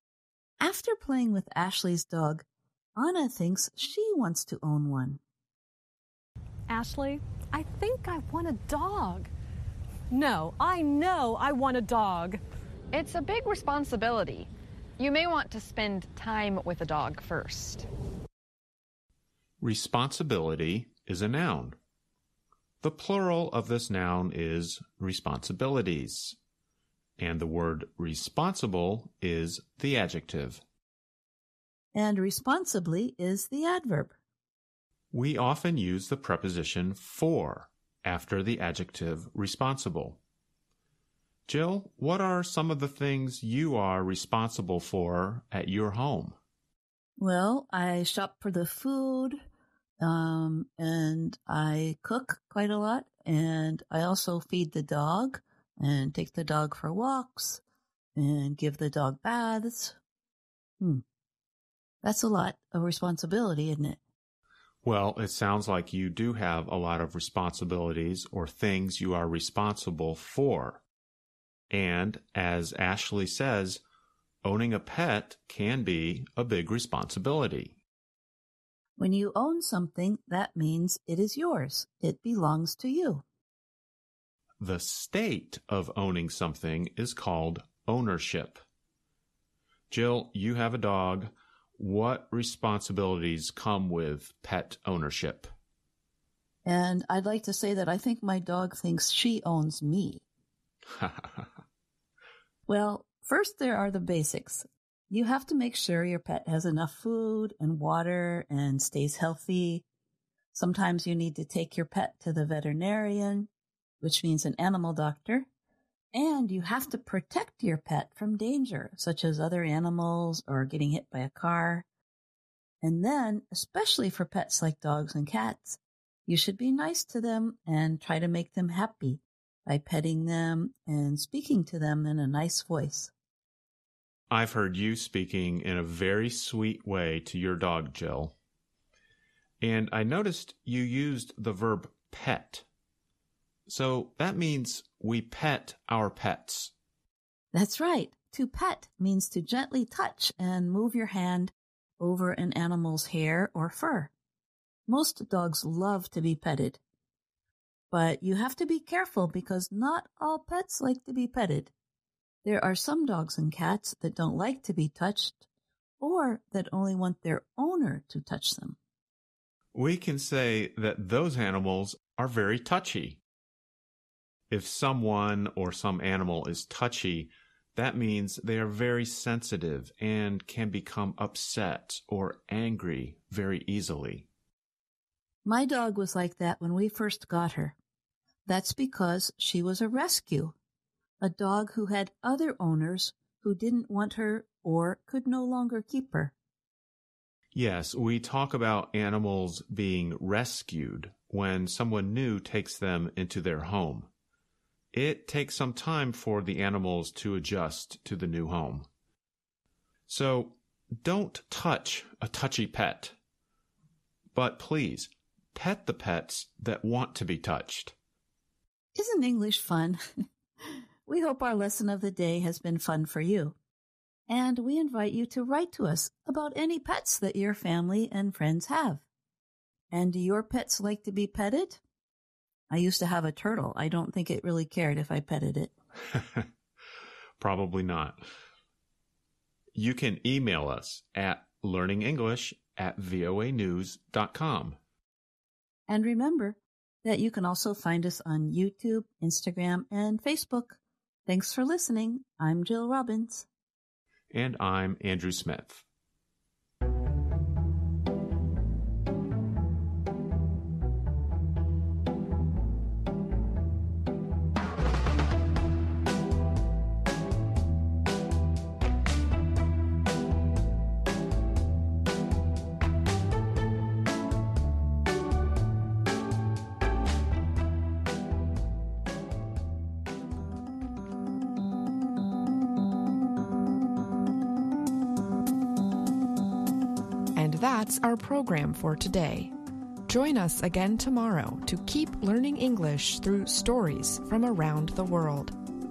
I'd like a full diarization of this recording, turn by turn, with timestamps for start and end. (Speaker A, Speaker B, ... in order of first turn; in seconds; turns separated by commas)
Speaker A: 0.6-2.4, Speaker A: 3.0-5.2, Speaker B: 6.7-9.3, Speaker B: 10.1-12.4, Speaker C: 12.9-17.9, Speaker D: 19.6-21.8, Speaker D: 22.8-26.4, Speaker D: 27.2-30.6, Speaker A: 31.9-34.1, Speaker D: 35.1-40.2, Speaker D: 41.5-46.4, Speaker A: 47.2-49.4, Speaker A: 50.0-57.6, Speaker A: 58.1-60.0, Speaker A: 62.0-64.0, Speaker D: 64.8-70.8, Speaker D: 71.7-73.8, Speaker D: 74.4-77.8, Speaker A: 79.0-83.2, Speaker D: 84.6-88.6, Speaker D: 89.9-95.5, Speaker A: 96.7-100.2, Speaker D: 100.9-101.5, Speaker A: 102.7-109.8, Speaker A: 110.5-113.5, Speaker A: 114.0-115.5, Speaker A: 116.1-121.8, Speaker A: 122.8-133.1, Speaker D: 134.3-138.3, Speaker D: 139.6-142.6, Speaker D: 143.7-146.7, Speaker A: 147.5-154.1, Speaker A: 154.9-156.8, Speaker A: 157.9-161.7, Speaker A: 162.4-165.4, Speaker A: 166.0-168.8, Speaker D: 169.7-173.2, Speaker D: 174.5-184.3, Speaker A: 185.4-187.8, Speaker A: 188.5-190.5, Speaker A: 191.2-196.3, Speaker D: 197.5-204.1, Speaker D: 204.9-208.9, Speaker D: 210.1-213.1, Speaker D: 214.3-217.9, Speaker A: 218.9-220.0, Speaker A: 220.6-223.5, Speaker A: 224.3-229.0, Speaker A: 229.9-231.8, Speaker A: 232.7-235.7, Speaker D: 236.1-236.4, Speaker D: 237.4-238.2, Speaker D: 239.7-244.8, Speaker A: 245.9-253.4, Speaker D: 254.3-255.8, Speaker E: 287.4-289.5, Speaker E: 290.1-295.5